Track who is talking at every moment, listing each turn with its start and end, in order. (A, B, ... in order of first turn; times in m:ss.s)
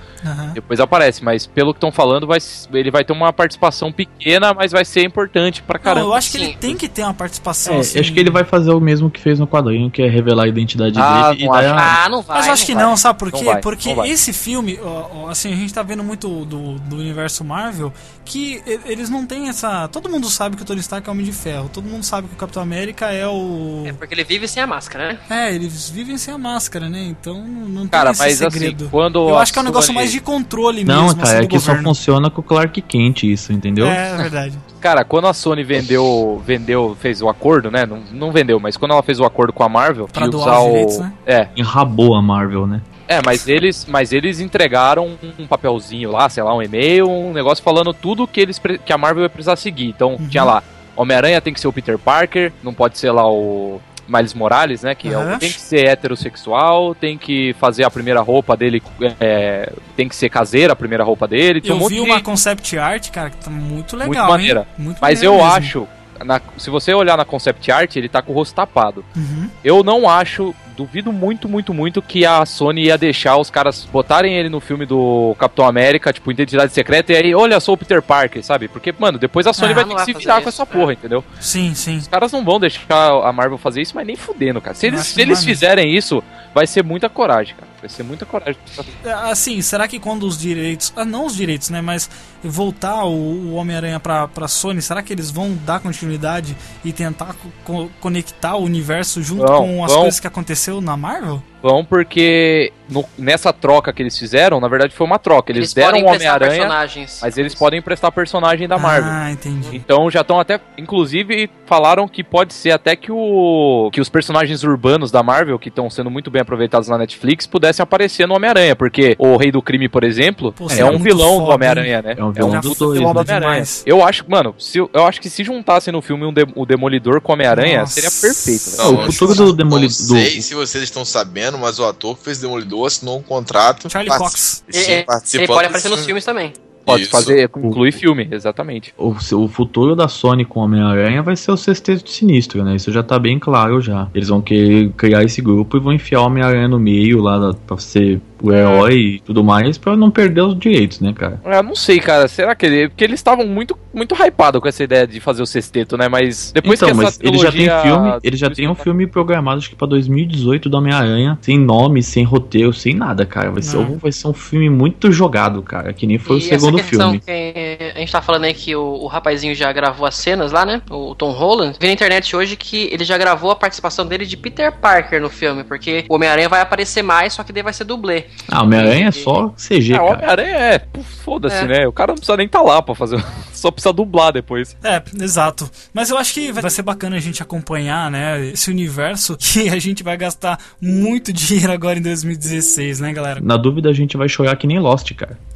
0:00.2-0:00.6 A
0:00.6-0:06.2 B
0:05.8-0:08.4 A
0:06.2-0:06.6 C
0:07.6-0:11.9 D
0:10.9-0:12.0 B
0:11.7-0:12.9 C
0:12.3-0:24.0 A
0:13.3-0:14.1 B
0:23.8-0:25.2 C
0:25.3-0:31.9 A
0:27.9-0:30.2 B
0:30.8-0:34.0 D
0:33.8-0:34.6 A
0:34.8-0:41.5 B
0:40.1-0:41.1 A
0:41.6-0:42.8 D
0:43.1-1:02.2 B
0:50.2-0:50.5 A
0:55.0-0:55.6 A
1:01.6-1:05.7 A
1:04.0-1:09.1 B
1:09.2-1:09.5 A
1:09.6-1:21.2 B
1:19.6-1:19.9 A
1:19.6-1:20.9 C
1:21.4-1:22.1 A
1:22.1-1:28.9 B
1:24.8-1:25.6 A
1:29.0-1:41.4 A
1:39.4-1:40.2 B
1:41.6-1:49.2 B
1:45.5-1:47.6 C
1:48.8-1:49.8 A
1:49.7-2:09.1 B
2:00.6-2:03.8 A
2:00.7-2:01.0 D
2:02.2-2:03.4 D
2:07.5-2:09.5 A
2:08.8-2:16.1 E
2:08.8-2:10.5 D
2:13.9-2:14.6 A
2:14.7-2:16.6 C
2:16.9-2:17.4 E
2:16.9-2:18.9 B
2:17.6-2:18.0 D
2:19.0-2:31.4 D
2:31.4-2:38.9 B
2:36.6-2:47.2 D
2:43.6-2:44.0 A
2:46.2-2:59.3 C
2:58.5-3:00.3 D
2:59.9-3:04.7 B
3:04.8-3:13.4 A
3:13.4-3:15.4 D